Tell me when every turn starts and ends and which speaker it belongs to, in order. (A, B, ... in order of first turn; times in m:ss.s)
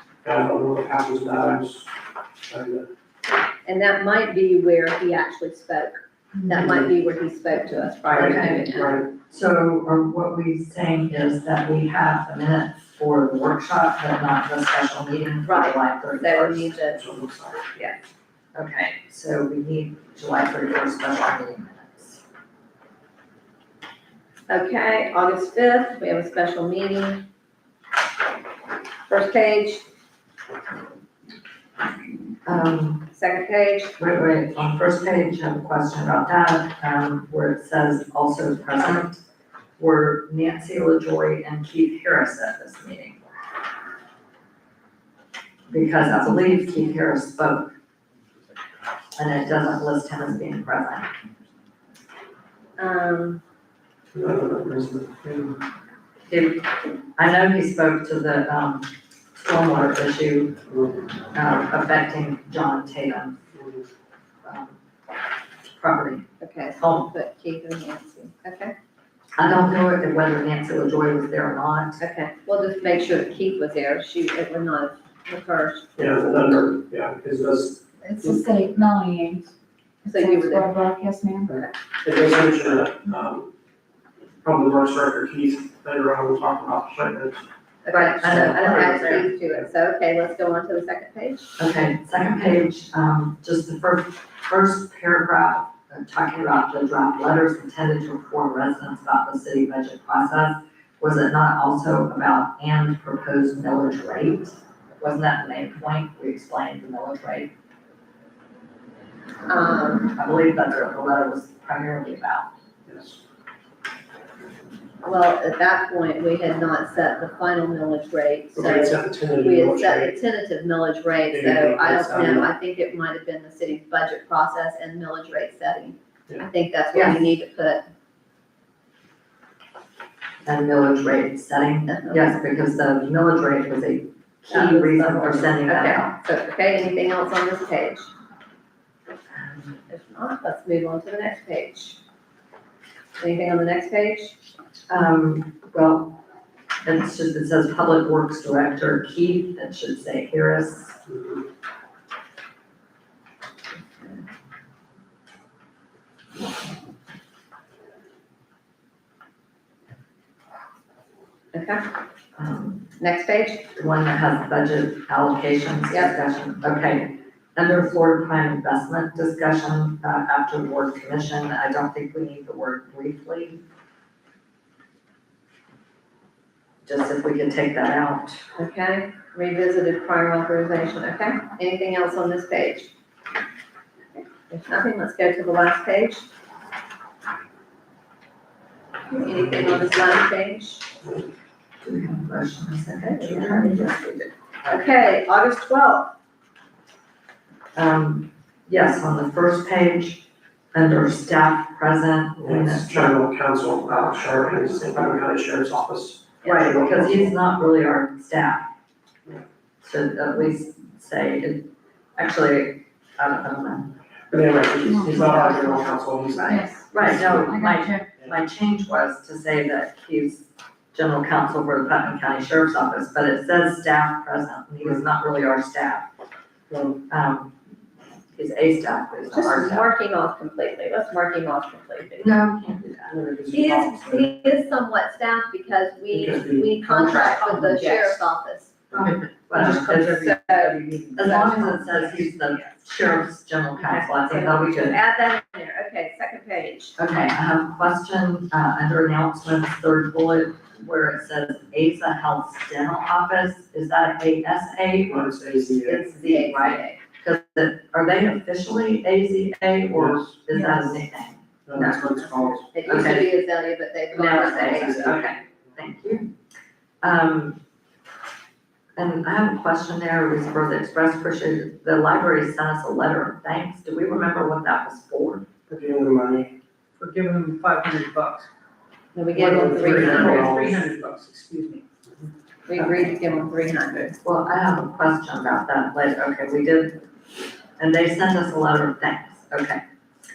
0:00.2-0:01.9 A
0:02.5-0:02.9 A
0:03.6-0:09.0 B
0:08.1-0:09.1 A
0:08.1-0:08.6 C
0:09.2-0:16.8 C
0:15.4-0:17.0 B
0:17.0-0:17.7 A
0:18.6-0:22.2 C
0:24.5-0:27.3 B
0:29.1-0:29.8 B
0:32.5-0:33.1 C
0:33.1-0:34.0 B
0:34.0-0:39.2 C
0:39.8-0:43.2 C
0:45.7-0:47.7 C
0:49.2-0:51.1 C
0:52.8-0:53.4 B
0:54.1-0:55.6 A
0:56.3-1:00.6 C
1:01.3-1:03.4 C
1:04.4-1:04.8 C
1:05.7-1:06.3 C
1:06.4-1:08.7 B
1:06.8-1:07.1 C
1:09.4-1:12.0 C
1:12.0-1:15.9 B
1:16.0-1:18.4 A
1:18.0-1:19.5 D
1:20.0-1:20.7 B
1:20.2-1:21.5 D
1:21.5-1:23.5 A
1:24.4-1:27.4 A
1:27.8-1:31.6 B
1:27.9-1:29.3 C
1:31.6-1:47.5 C
1:49.5-1:50.1 B
1:50.1-1:52.5 C
1:52.9-1:53.2 A
1:55.0-2:07.8 B
1:58.5-2:00.2 A
2:01.3-2:02.5 A
2:06.9-2:07.3 C
2:10.4-2:16.1 C
2:11.9-2:12.3 B
2:14.5-2:18.1 B
2:19.3-2:19.8 C
2:19.9-2:22.0 B
2:23.2-2:24.4 B
2:24.9-2:26.2 C
2:26.8-2:31.0 C
2:34.0-2:34.2 B
2:41.5-2:41.8 B
2:42.4-2:42.9 C
2:43.0-2:43.7 B
2:43.7-2:53.6 C
2:56.8-2:58.4 C
2:58.6-3:02.9 B
3:04.1-3:06.3 B
3:09.1-3:10.9 B
3:11.8-3:14.9 C
3:13.0-3:16.1 B
3:17.8-3:23.2 C
3:22.4-3:27.3 A
3:26.4-3:26.7 B
3:26.4-3:28.7 C
3:29.8-3:33.9 C
3:34.3-3:36.7 A
3:34.8-3:35.7 D
3:36.4-3:38.1 D
3:36.4-3:46.1 C
3:47.1-3:47.6 C
3:48.4-3:49.9 C
3:49.3-3:52.4 B
3:52.2-3:53.1 C
3:53.1-3:54.2 A
3:53.5-3:58.7 B
3:56.1-3:56.8 A
3:56.8-3:58.2 E
3:58.9-4:00.3 C
3:58.9-4:02.6 E
4:00.3-4:00.8 B
4:01.2-4:05.0 C
4:03.8-4:07.0 B
4:07.0-4:22.3 C
4:15.1-4:16.1 A
4:16.2-4:17.0 B
4:19.9-4:20.8 A
4:21.7-4:22.9 A
4:22.7-4:25.2 B
4:22.8-4:23.3 C
4:24.1-4:26.3 C
4:24.7-4:25.2 A
4:27.0-4:27.6 C
4:29.0-4:35.5 C
4:35.7-4:36.5 A
4:37.0-4:38.5 E
4:39.1-4:40.6 B
4:39.3-4:41.8 E
4:39.6-4:40.9 A
4:42.7-4:44.2 B
4:42.8-4:43.1 C
4:44.2-4:47.0 C
4:47.8-4:49.8 C